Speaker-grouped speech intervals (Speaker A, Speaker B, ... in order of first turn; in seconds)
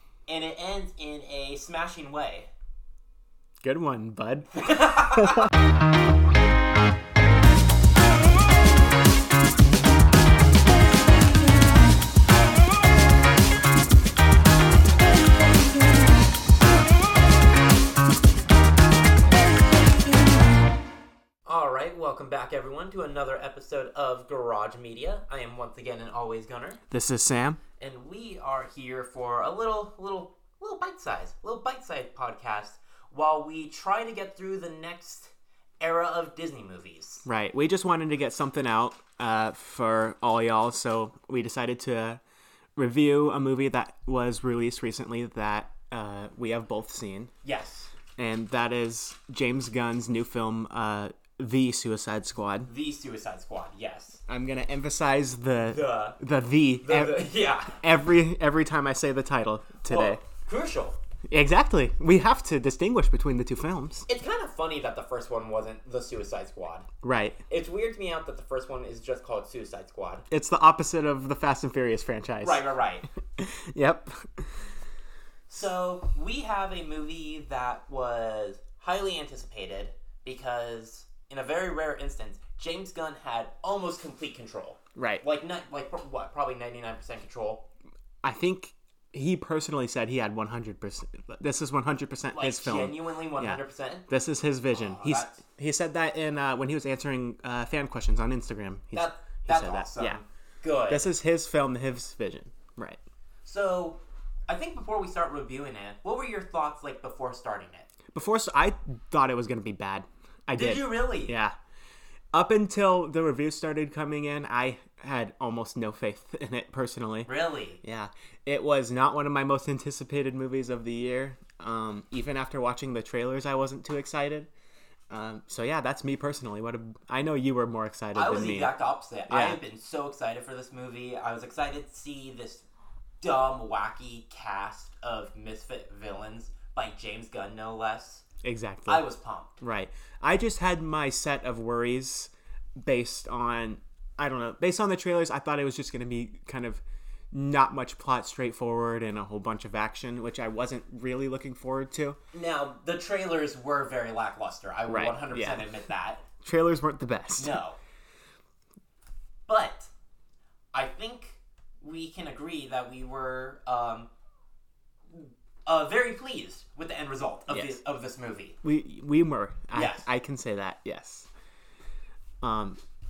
Speaker A: 0.3-2.5, 4.5-5.5, 21.5-26.8, 27.8-37.2, 47.4-47.9, 52.7-54.2, 55.7-56.2, 56.8-57.8, 59.9-61.0, 64.1-66.9, 67.5-70.2, 72.4-73.1, 75.5-87.7, 92.3-94.1, 94.7-95.4, 98.9-101.1, 103.5-107.9, 110.5-111.3, 117.3-117.8, 128.2-132.7, 133.2-138.2, 138.9-139.6, 152.3-156.2, 157.4-157.8, 159.5-159.9, 160.7-164.1, 165.1-168.6, 169.7-170.1
Speaker B: 3.6-5.5, 26.9-27.6, 37.2-42.2, 42.8-47.3, 48.2-52.7, 54.3-60.2, 61.3-64.1, 67.0-67.4, 70.3-72.7, 73.4-74.7, 85.0-85.2, 88.2-100.2, 100.9-103.0, 108.1-111.5, 112.3-117.3, 117.8-124.5, 125.1-128.7, 129.3-129.6, 138.4-139.0, 139.6-146.8, 147.3-152.2, 154.9-155.7, 156.4-157.6, 167.5-167.8, 168.6-171.3, 172.4-172.8